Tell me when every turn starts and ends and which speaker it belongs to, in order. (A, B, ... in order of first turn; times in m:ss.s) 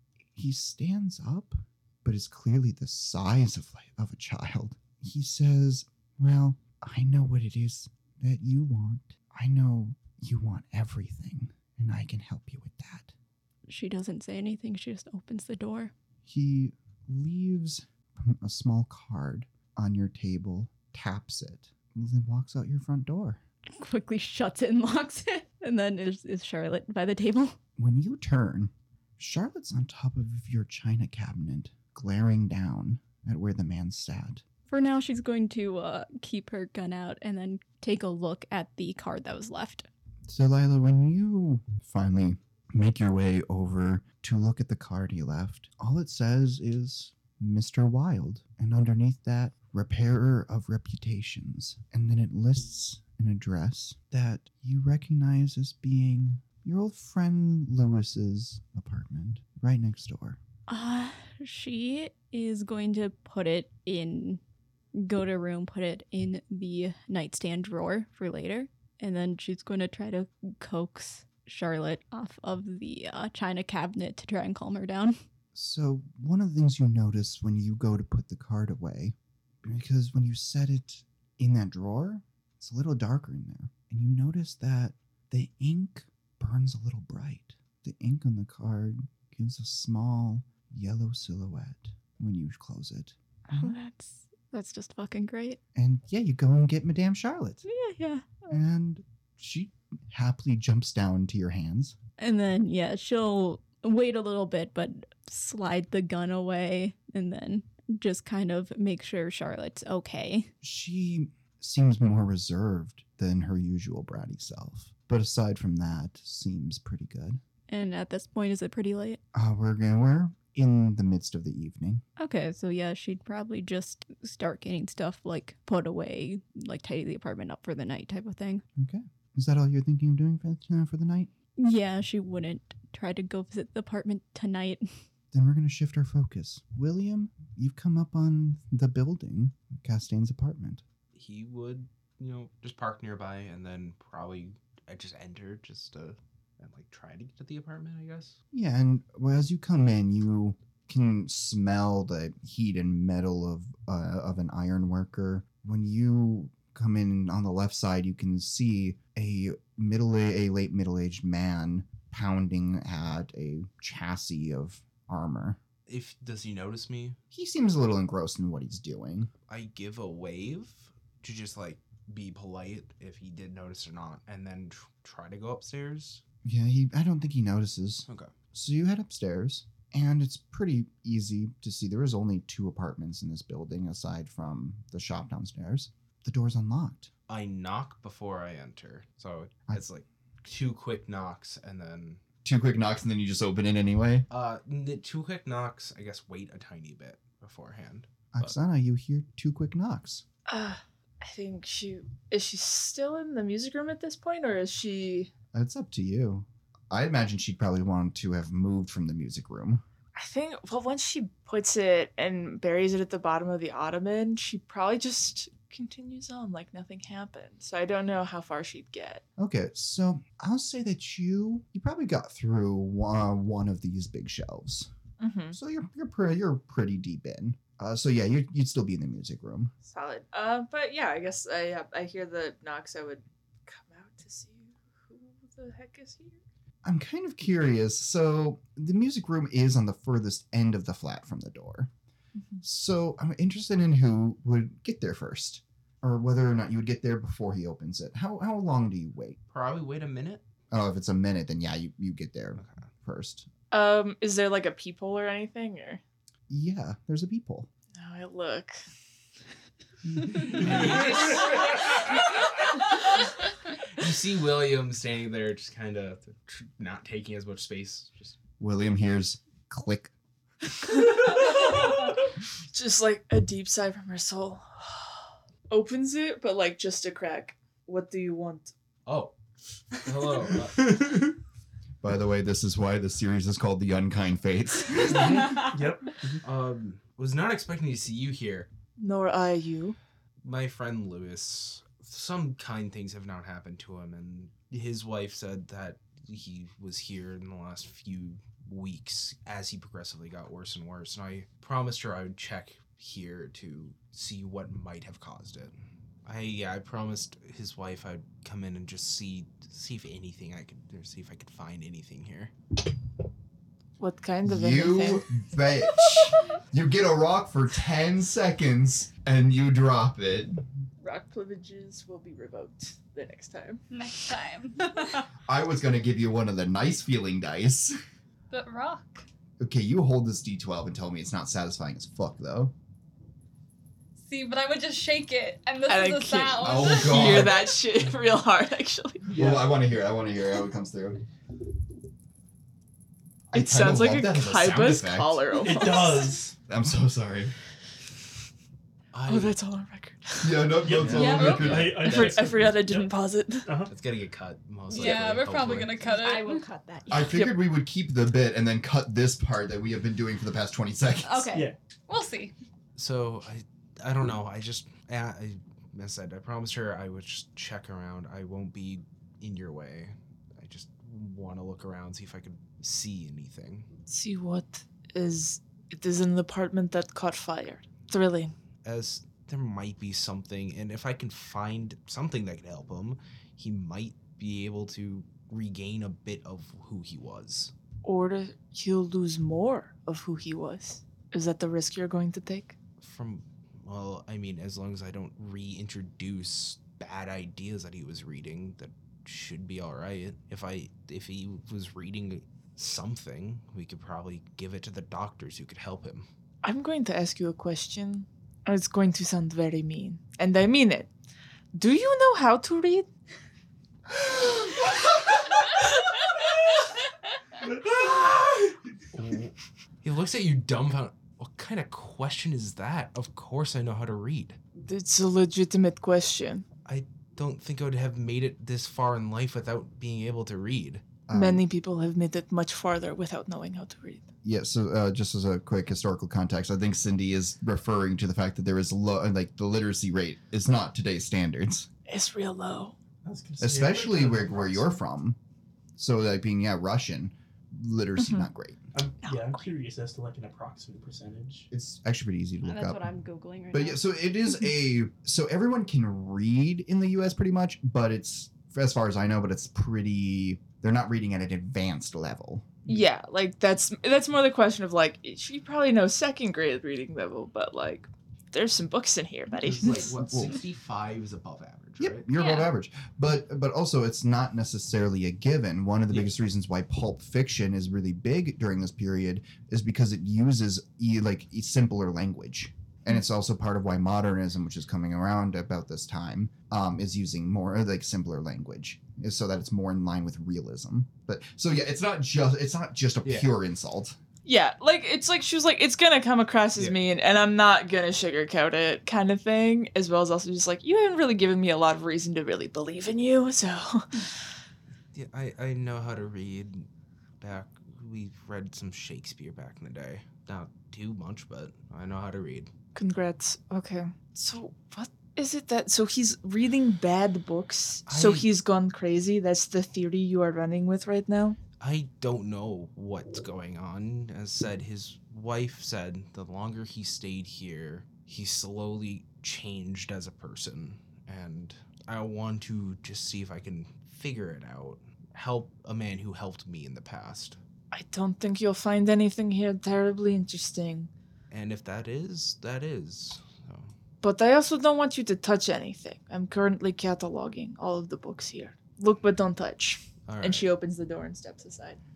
0:00.4-0:13.1 A
0:13.7-0:15.9 B
0:16.2-0:23.4 A
0:23.8-0:27.6 B
0:27.8-0:34.4 A
0:34.7-0:39.9 B
0:40.3-1:00.4 A
1:00.7-1:04.4 B
1:05.0-1:15.2 B
1:15.5-1:33.7 A
1:33.5-1:35.6 B
1:35.7-1:37.6 A
1:37.6-1:38.6 B
1:38.5-1:42.0 A
1:42.2-1:50.5 B
1:50.6-1:57.4 A
1:57.7-1:59.2 B
1:59.3-2:02.0 A
2:02.2-2:08.6 B
2:08.8-2:11.3 A
2:11.6-2:15.0 B
2:15.3-2:20.8 A
2:21.1-2:28.4 C
2:28.5-2:45.6 A
2:45.9-2:47.2 C
2:47.3-2:49.3 A
2:49.5-2:56.2 C
2:56.4-3:07.1 A
2:58.1-2:58.3 C
3:07.3-3:12.2 C
3:12.4-3:14.3 A
3:14.3-3:18.5 C
3:18.3-3:20.2 A
3:20.5-3:25.3 D
3:25.5-3:29.8 A
3:30.1-3:39.2 D
3:39.4-3:44.9 A
3:45.2-3:45.6 D
3:45.5-3:49.7 A
3:49.8-3:56.4 D
3:56.8-4:01.9 A
4:02.4-4:02.6 D
4:02.6-4:09.4 A
4:09.5-4:10.4 C
4:10.7-4:13.5 A
4:12.6-4:12.9 C
4:13.7-4:16.0 D
4:16.5-4:17.7 A
4:18.0-4:18.8 D
4:20.2-4:20.7 E
4:20.4-4:22.2 C
4:23.9-4:28.4 C
4:28.6-4:30.1 A
4:30.9-4:32.0 D
4:32.7-4:38.7 D
4:39.0-4:39.4 C
4:39.9-4:41.1 C
4:40.8-4:41.3 E
4:42.0-4:45.6 A
4:45.1-4:45.4 C
4:45.5-4:46.4 E
4:46.4-4:48.7 C
4:49.0-4:50.0 D
4:50.4-5:05.7 C
5:06.2-5:12.5 C
5:14.0-5:15.3 D
5:14.4-5:20.7 A
5:21.0-5:23.8 D
5:23.9-5:24.9 F
5:25.4-5:27.9 A
5:28.5-5:29.2 F
5:29.6-5:32.7 A
5:34.2-5:37.4 F
5:35.9-5:39.3 D
5:36.6-5:37.7 A
5:39.3-5:41.2 A
5:39.3-5:39.7 E
5:43.5-5:45.4 A
5:43.5-5:46.4 D
5:45.5-5:46.6 E
5:46.7-5:47.5 A
5:49.1-5:49.5 C
5:49.2-5:50.7 D
5:50.4-5:52.0 A
5:50.8-5:53.1 E
5:50.9-5:52.7 C
5:51.1-5:52.2 B
5:52.0-5:53.7 D
5:53.6-5:53.9 E
5:53.9-5:56.1 C
5:54.9-5:56.6 F
5:54.9-5:57.4 B
5:57.1-6:01.5 A
5:57.1-5:57.5 D
6:01.2-6:01.7 B
6:02.1-6:02.5 F
6:02.9-6:13.9 C
6:14.1-6:18.5 D
6:18.8-6:27.7 C
6:28.0-6:32.8 D
6:33.0-6:46.3 C
6:46.6-6:51.1 D
6:51.7-6:53.1 D
6:57.6-6:58.8 E
6:59.1-7:04.6 C
7:04.8-7:06.7 D
7:06.8-7:11.0 C
7:11.3-7:11.6 A
7:11.3-7:14.3 D
7:14.4-7:21.9 A
7:22.1-7:23.0 D
7:23.2-7:25.0 E
7:23.6-7:25.4 A
7:26.0-7:28.8 A
7:28.2-7:28.4 D
7:28.9-7:31.7 E
7:29.2-7:29.6 D
7:31.7-7:33.1 A
7:32.6-7:34.0 B
7:33.7-7:42.8 A
7:42.9-7:50.1 D
7:49.6-7:52.2 C
7:49.8-7:50.6 A
7:52.0-8:14.2 A
7:52.3-7:52.7 F
8:14.4-8:24.4 D
8:25.1-8:26.9 C
8:27.4-8:32.7 C
8:32.9-8:41.6 D
8:38.1-8:38.5 C
8:41.8-8:57.6 C
8:57.9-9:01.1 D
9:01.5-9:03.9 C
9:04.2-9:12.0 D
9:10.3-9:10.7 C